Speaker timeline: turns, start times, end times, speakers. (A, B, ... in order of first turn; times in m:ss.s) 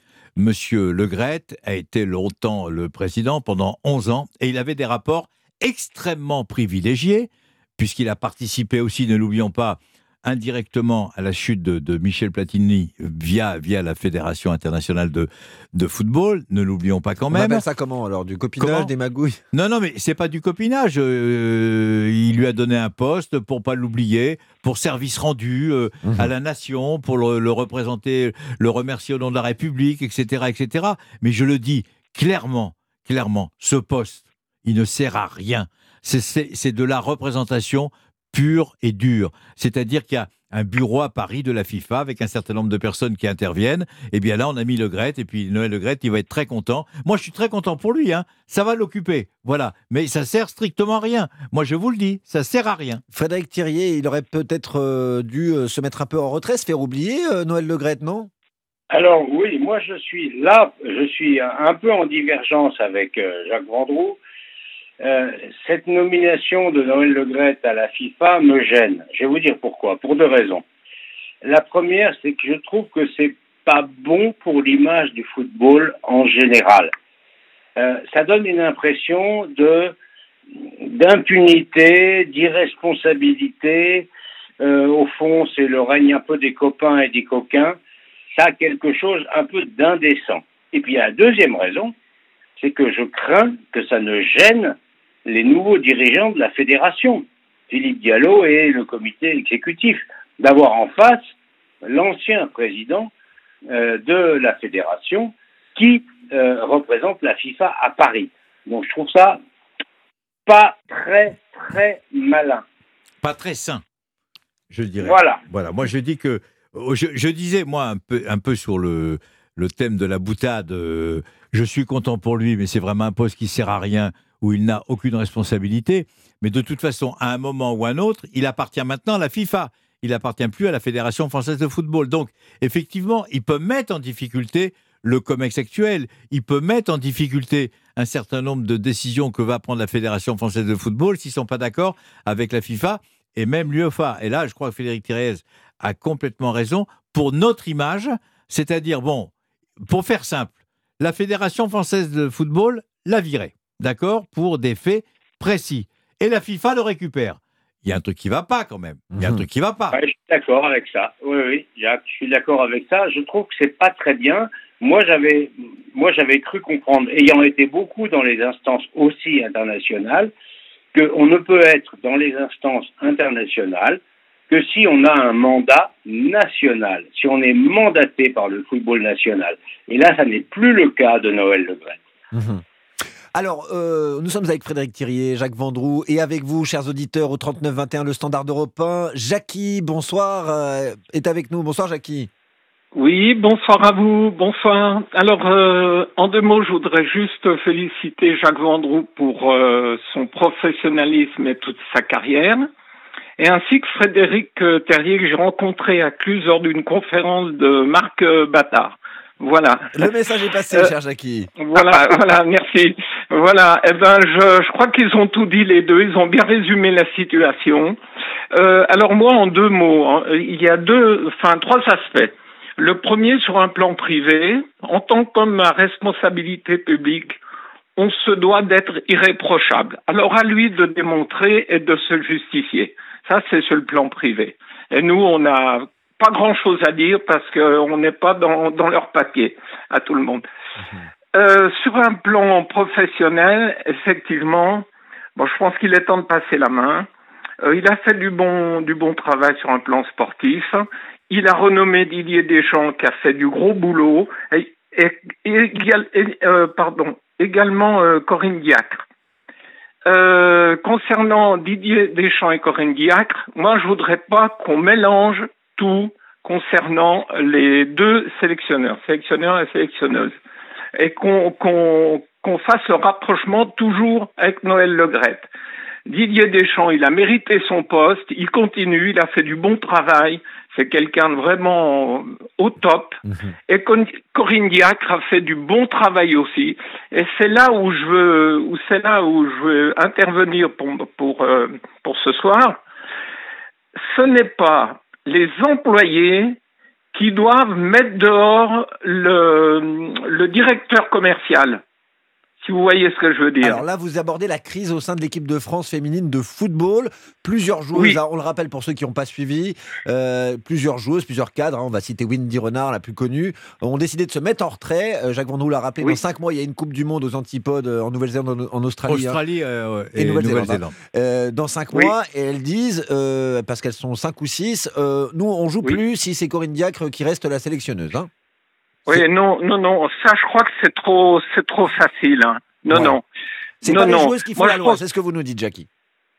0:00.4-0:17.6 A
0:17.3-0:19.4 B
0:18.6-0:18.9 A
0:19.5-0:53.0 A
0:26.0-0:26.3 B
0:53.1-0:58.3 B
0:58.9-1:04.2 C
1:05.0-1:10.6 C
1:11.4-1:16.9 C
1:17.8-1:19.9 C
1:20.8-1:24.1 C
1:24.6-1:27.8 C
1:28.4-1:31.9 C
1:32.6-1:41.2 C
1:41.8-1:43.1 C
1:43.7-1:49.4 C
1:50.5-1:52.6 C
1:53.2-1:53.8 A
1:54.7-2:29.3 A
1:55.0-1:55.4 C
2:29.9-2:40.0 A
2:39.1-2:39.4 B
2:39.9-2:50.3 C
2:50.9-3:02.0 C
3:02.3-3:02.6 B
3:03.4-3:12.3 B
3:13.0-3:22.7 D
3:23.4-3:30.0 D
3:30.0-3:31.9 B
3:31.6-3:38.0 D
3:38.5-3:47.4 D
3:48.0-4:00.4 D
4:01.4-4:07.1 D
4:07.6-4:19.0 D
4:20.1-4:30.4 D
4:31.0-4:35.5 D
4:36.1-4:52.8 D
4:54.1-4:56.6 D
4:57.1-5:01.8 D
5:02.6-5:03.8 D
5:03.6-5:19.4 B
5:19.1-5:21.0 A
5:20.2-5:28.3 B
5:29.1-5:33.2 D
5:32.9-5:33.2 B
5:33.8-5:35.9 B
5:33.8-5:35.0 D